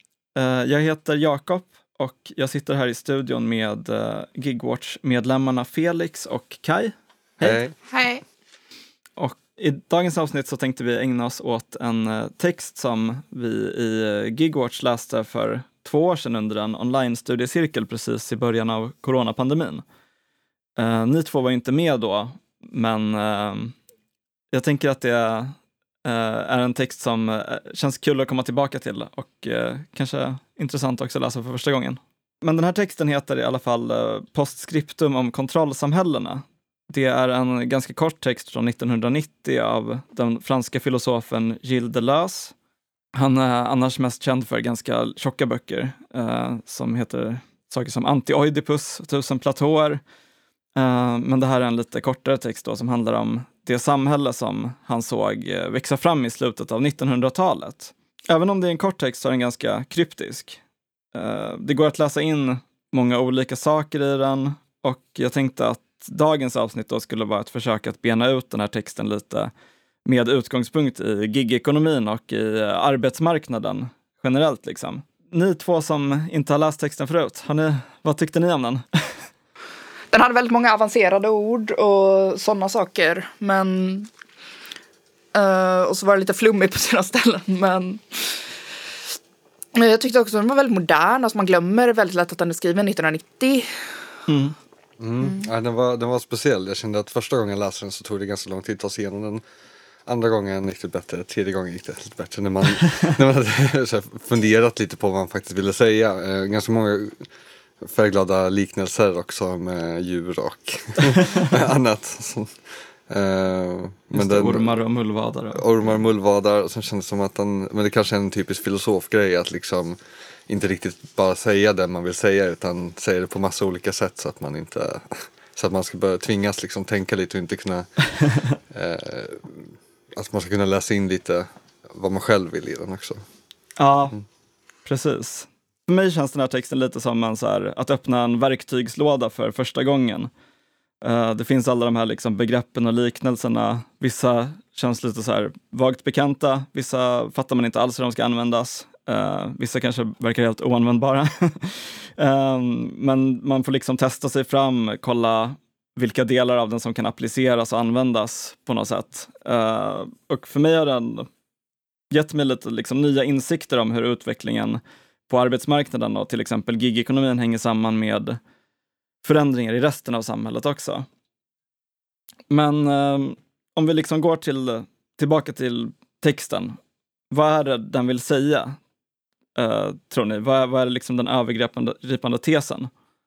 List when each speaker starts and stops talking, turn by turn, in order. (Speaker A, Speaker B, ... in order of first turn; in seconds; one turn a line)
Speaker A: 0.4-7.6
Speaker B: 7.4-7.8
Speaker C: 7.9-8.2
Speaker A: 9.2-19.8
Speaker A: 20.8-23.8
Speaker A: 24.5-42.5
Speaker A: 43.1-50.0
Speaker A: 50.8-60.6
Speaker A: 61.1-69.5
Speaker A: 70.0-79.1
Speaker C: 80.1-84.1
Speaker C: 85.3-88.6
Speaker C: 89.8-94.0
Speaker A: 94.3-94.5
Speaker B: 95.0-99.4
Speaker B: 100.1-107.3
Speaker B: 107.8-114.7
Speaker A: 111.1-111.5
Speaker A: 114.1-115.6
Speaker B: 115.5-127.9
Speaker A: 128.2-128.5
Speaker B: 128.7-133.2
Speaker A: 133.8-134.2
Speaker A: 134.8-140.3
Speaker A: 141.0-161.3
Speaker A: 162.1-168.4
Speaker A: 169.2-171.1
Speaker A: 172.5-176.8
Speaker A: 177.3-178.8
Speaker A: 179.6-182.9